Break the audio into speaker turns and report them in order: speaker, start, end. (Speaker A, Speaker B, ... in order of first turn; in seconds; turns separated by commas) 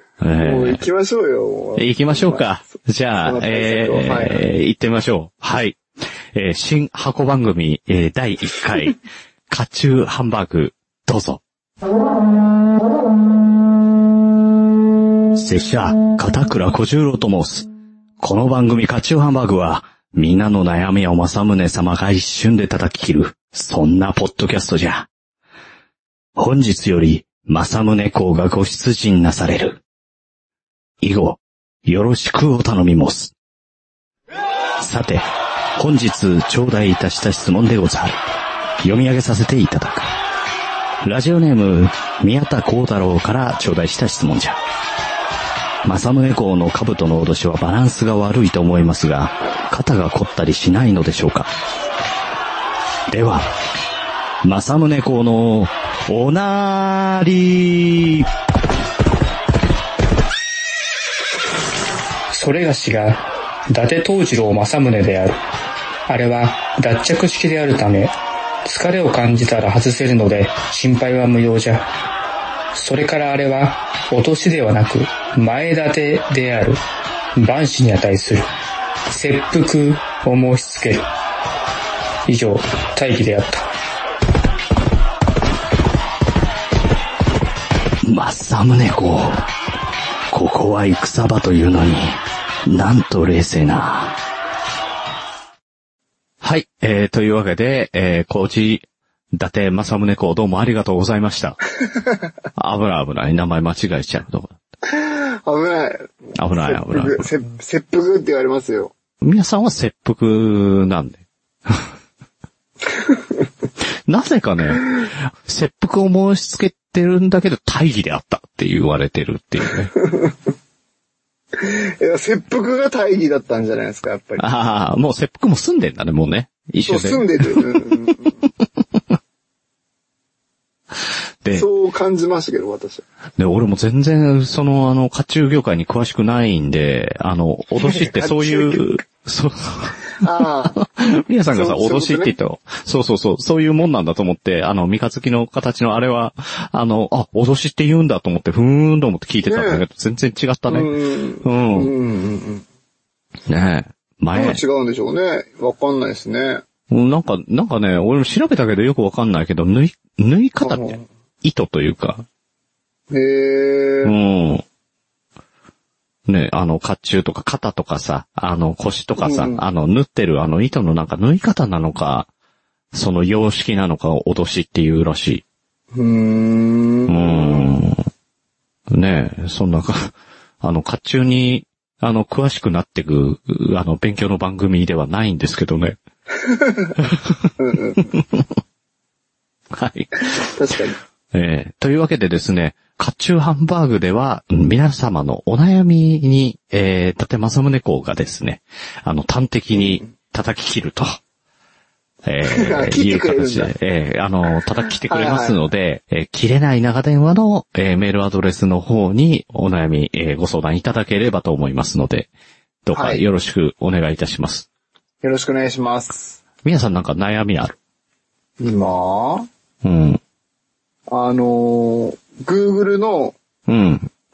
Speaker A: 0.2-0.8, Speaker B: 0.4-4.4, Speaker A: 1.8-5.8, Speaker A: 6.3-9.0, Speaker A: 9.5-11.4, Speaker A: 15.3-17.7, Speaker A: 18.2-25.1, Speaker A: 26.4-29.8, Speaker A: 31.0-33.3, Speaker A: 34.8-35.2, Speaker A: 35.8-38.2, Speaker A: 38.8-40.1, Speaker A: 41.0-44.6, Speaker A: 45.8-51.5, Speaker A: 53.1-53.5, Speaker A: 54.4-58.3, Speaker C: 62.3-65.4, Speaker C: 66.1-68.1, Speaker C: 68.6-71.8, Speaker C: 72.7-76.8, Speaker C: 77.4-78.5, Speaker C: 79.1-81.0, Speaker C: 82.3-83.7, Speaker A: 88.0-89.4, Speaker A: 90.3-94.2, Speaker A: 96.4-101.6, Speaker A: 102.5-104.6, Speaker B: 104.9-108.9, Speaker A: 106.4-107.2, Speaker A: 109.2-111.8, Speaker A: 114.1-119.9, Speaker B: 120.0-120.3, Speaker B: 121.5-124.5, Speaker A: 124.4-127.5, Speaker B: 126.8-128.4, Speaker B: 131.5-133.0, Speaker A: 133.4-139.9, Speaker B: 137.8-139.0, Speaker B: 140.2-140.8, Speaker A: 140.8-150.9, Speaker B: 141.5-142.3, Speaker B: 149.4-149.8, Speaker B: 150.7-152.6, Speaker A: 151.4-151.9, Speaker A: 153.5-154.6, Speaker B: 154.3-156.6, Speaker A: 156.9-162.2, Speaker B: 160.6-161.1, Speaker B: 163.1-164.1, Speaker A: 164.0-164.6, Speaker A: 166.3-172.3, Speaker B: 169.2-169.6, Speaker A: 172.9-175.4, Speaker B: 175.9-177.7, Speaker A: 177.1-178.0, Speaker A: 178.9-186.0, Speaker B: 186.4-186.9, Speaker B: 187.6-188.1, Speaker A: 188.1-188.4, Speaker A: 189.7-190.2, Speaker B: 190.2-191.0, Speaker A: 191.3-201.2, Speaker B: 199.7-200.1, Speaker A: 202.2-212.3, Speaker B: 202.4-203.7, Speaker B: 205.1-205.6, Speaker A: 212.8-214.7, Speaker B: 212.9-213.2, Speaker B: 215.2-216.4, Speaker A: 216.6-217.8, Speaker B: 218.6-219.5, Speaker A: 219.8-220.2, Speaker B: 221.1-223.3, Speaker A: 223.7-224.1